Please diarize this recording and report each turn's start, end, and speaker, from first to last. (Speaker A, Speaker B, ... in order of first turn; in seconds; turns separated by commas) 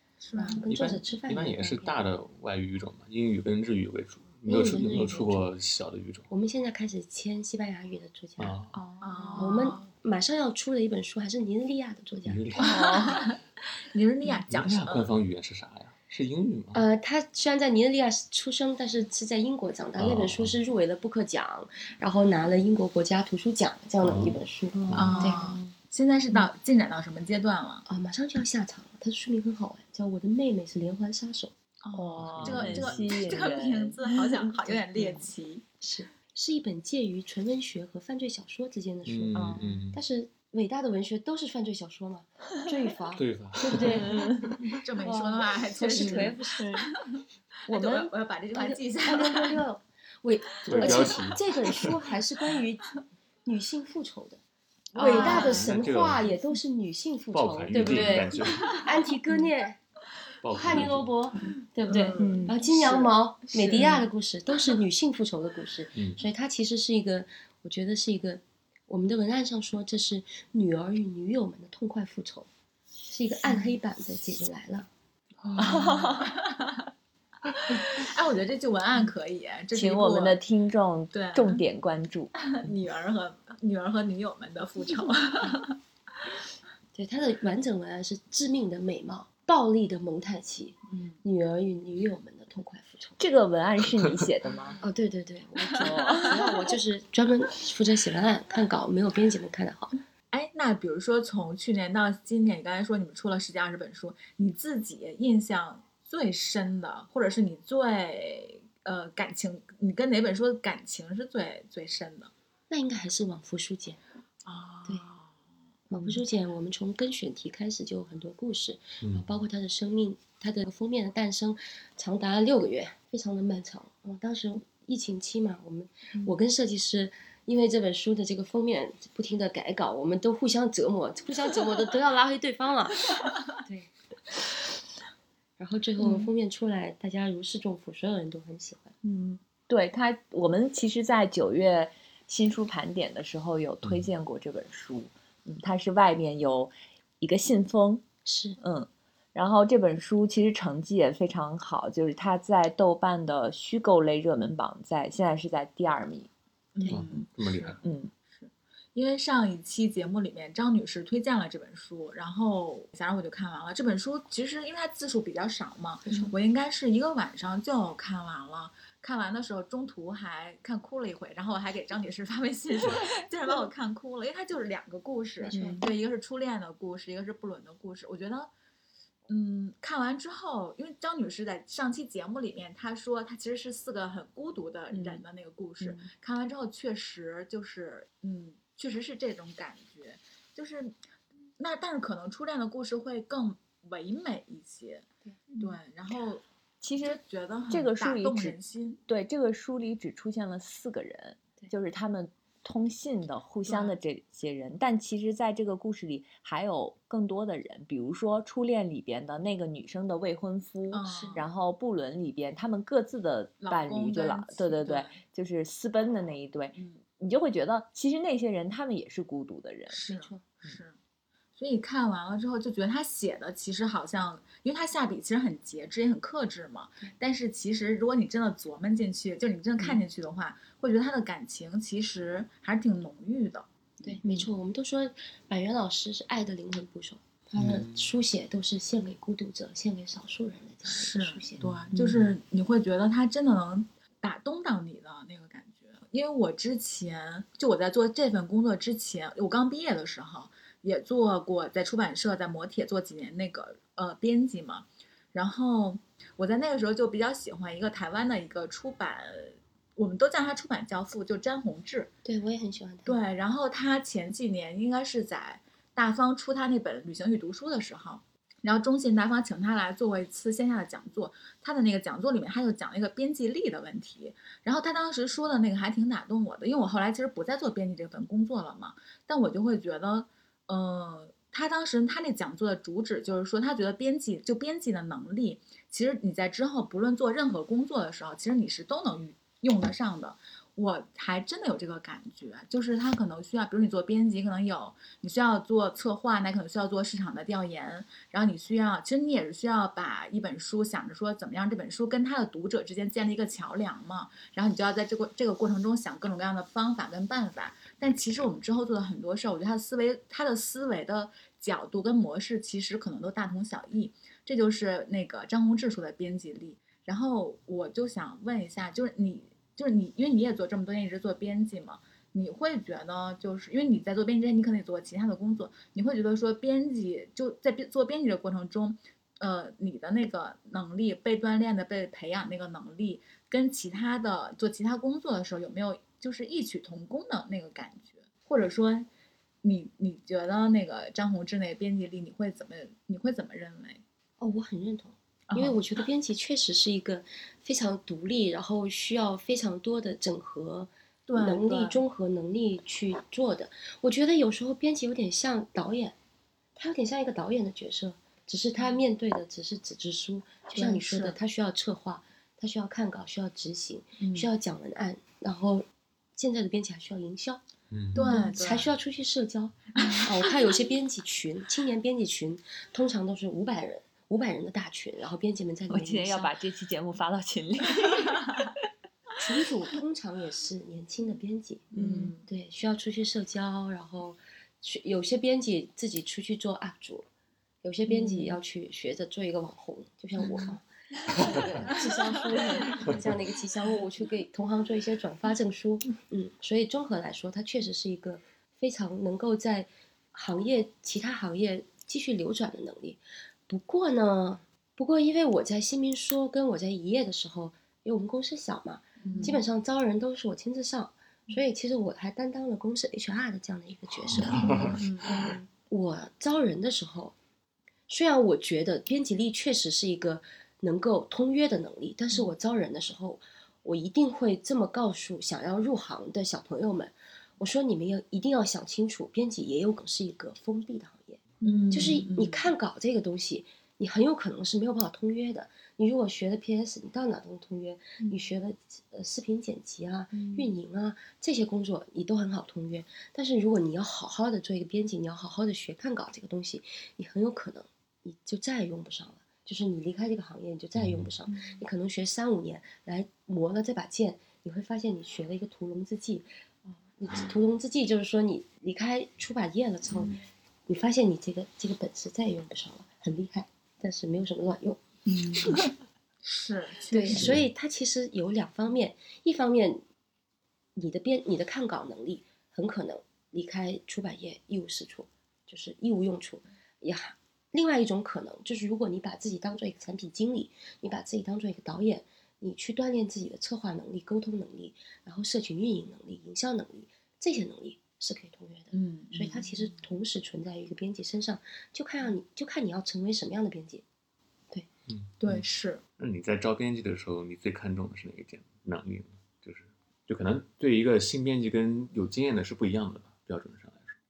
Speaker A: 0.2-0.6, Speaker B: 0.4-2.0, Speaker C: 0.6-6.3, Speaker B: 4.4-5.4, Speaker B: 6.3-8.6, Speaker C: 8.4-8.8, Speaker D: 8.7-9.8, Speaker A: 9.0-9.9, Speaker B: 9.3-12.4, Speaker C: 12.2-13.3, Speaker A: 12.6-13.4, Speaker D: 12.6-13.3, Speaker A: 13.9-15.1, Speaker C: 14.5-16.8, Speaker B: 16.7-25.5, Speaker C: 20.0-20.5, Speaker C: 24.0-25.1, Speaker D: 24.7-25.7, Speaker A: 24.9-27.8, Speaker B: 27.9-31.5, Speaker A: 31.8-35.6, Speaker D: 31.9-35.3, Speaker C: 32.2-33.5, Speaker B: 35.8-44.3, Speaker C: 39.0-40.0, Speaker D: 39.3-39.8, Speaker C: 43.1-44.2, Speaker D: 43.7-44.5, Speaker A: 44.7-49.6, Speaker B: 45.0-46.7, Speaker D: 46.0-46.9, Speaker D: 47.7-48.1, Speaker B: 48.5-52.9, Speaker C: 50.6-51.9, Speaker B: 53.5-54.4, Speaker A: 54.9-55.7, Speaker D: 55.0-55.6, Speaker B: 55.0-59.8, Speaker C: 55.4-56.3, Speaker C: 57.3-58.8, Speaker D: 57.7-58.2, Speaker C: 60.4-61.2, Speaker B: 60.5-72.5, Speaker A: 61.9-63.9, Speaker D: 61.9-62.6, Speaker D: 63.7-64.0, Speaker C: 65.9-66.2, Speaker B: 73.0-74.9, Speaker D: 75.5-76.2, Speaker A: 75.6-76.7, Speaker A: 77.7-80.4, Speaker D: 79.7-82.3, Speaker A: 81.1-81.6, Speaker A: 82.5-85.8, Speaker B: 86.9-93.2, Speaker A: 90.9-91.2, Speaker D: 93.2-94.8, Speaker B: 94.8-100.0, Speaker D: 95.7-96.5, Speaker A: 100.3-112.3, Speaker B: 112.7-114.0, Speaker A: 114.4-115.3, Speaker B: 115.9-133.0, Speaker D: 115.9-116.2, Speaker C: 119.0-119.2, Speaker B: 133.6-133.9, Speaker B: 135.6-138.9, Speaker D: 136.0-136.3, Speaker D: 139.0-148.0, Speaker B: 148.2-148.6, Speaker D: 148.6-156.3, Speaker A: 156.8-178.5, Speaker C: 156.9-157.8, Speaker D: 157.8-158.1, Speaker B: 166.1-166.3, Speaker B: 175.4-175.8, Speaker D: 175.5-175.8, Speaker A: 179.3-190.9, Speaker D: 184.9-185.2, Speaker D: 185.8-186.1, Speaker A: 191.6-195.1, Speaker D: 195.5-195.8, Speaker A: 195.6-196.4, Speaker D: 196.8-197.2, Speaker A: 197.0-199.0, Speaker D: 197.7-220.0, Speaker A: 203.7-203.9, Speaker A: 210.9-211.5, Speaker B: 211.0-211.5, Speaker A: 213.6-215.2, Speaker A: 216.7-217.0, Speaker A: 219.9-220.9, Speaker B: 220.1-220.4, Speaker A: 221.6-234.2, Speaker B: 234.0-241.6, Speaker C: 237.6-238.1, Speaker A: 240.8-262.1, Speaker C: 241.6-242.3, Speaker D: 241.9-242.2, Speaker B: 262.2-263.2, Speaker A: 263.0-339.1, Speaker A: 339.6-344.0, Speaker B: 344.4-356.1, Speaker A: 345.5-345.8, Speaker A: 351.3-352.0, Speaker B: 356.8-365.9, Speaker A: 360.7-361.4, Speaker A: 364.2-364.5, Speaker B: 366.4-367.6, Speaker C: 367.9-368.2, Speaker A: 368.1-368.9, Speaker B: 368.2-376.5, Speaker A: 369.9-370.5, Speaker D: 375.9-378.7, Speaker B: 379.4-381.9, Speaker A: 381.9-382.4, Speaker D: 381.9-382.3, Speaker B: 382.4-387.2, Speaker B: 387.8-417.3, Speaker D: 388.1-388.4, Speaker C: 393.1-393.3, Speaker A: 409.2-409.6, Speaker C: 414.1-415.5, Speaker A: 414.9-415.5, Speaker B: 418.1-465.0, Speaker A: 431.6-432.6, Speaker C: 450.9-451.3, Speaker A: 465.2-465.9, Speaker A: 466.4-467.6, Speaker B: 467.1-470.0, Speaker C: 467.3-467.6, Speaker B: 470.9-494.0, Speaker A: 488.9-489.7, Speaker C: 495.1-495.6, Speaker A: 495.4-496.0, Speaker C: 496.2-504.2